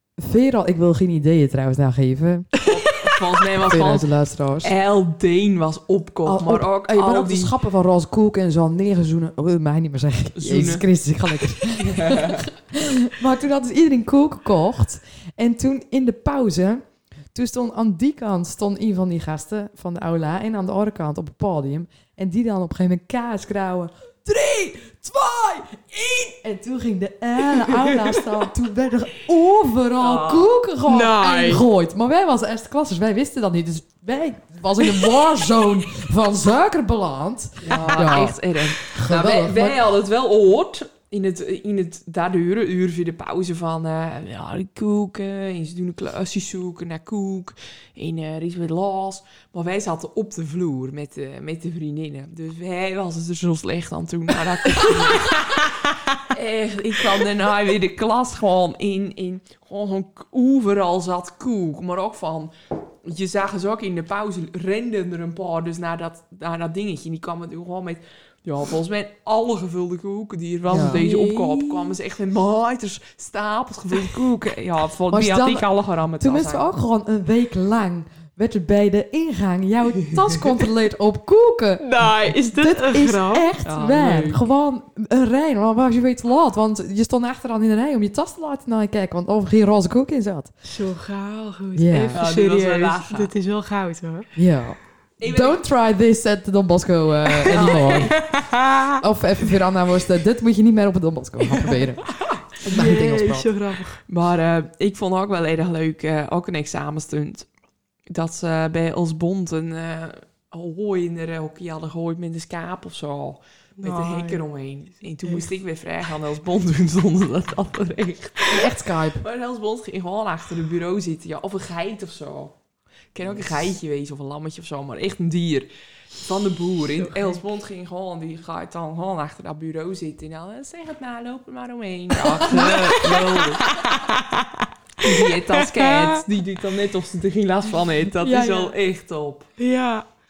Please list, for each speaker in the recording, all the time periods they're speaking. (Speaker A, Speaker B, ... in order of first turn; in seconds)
Speaker A: 0.2-2.5, 3.6-4.7, 6.2-39.8, 70.7-71.0, 75.1-75.7, 76.2-90.5, 91.7-92.2, 94.4-98.3, 99.0-103.5, 118.5-119.2
Speaker B: 2.6-3.2, 30.9-31.6, 70.8-71.9, 81.8-83.5, 90.6-94.3, 97.4-99.0, 102.6-104.0, 113.8-114.4, 132.3-136.2, 138.2-138.7, 139.6-140.1
Speaker C: 2.6-7.5, 10.4-10.8, 11.6-12.5, 30.0-30.5, 37.6-76.7, 83.6-84.4, 92.1-93.3, 95.2-95.6, 97.5-98.2, 104.1-107.5, 108.1-122.6, 123.1-133.7, 135.0-139.5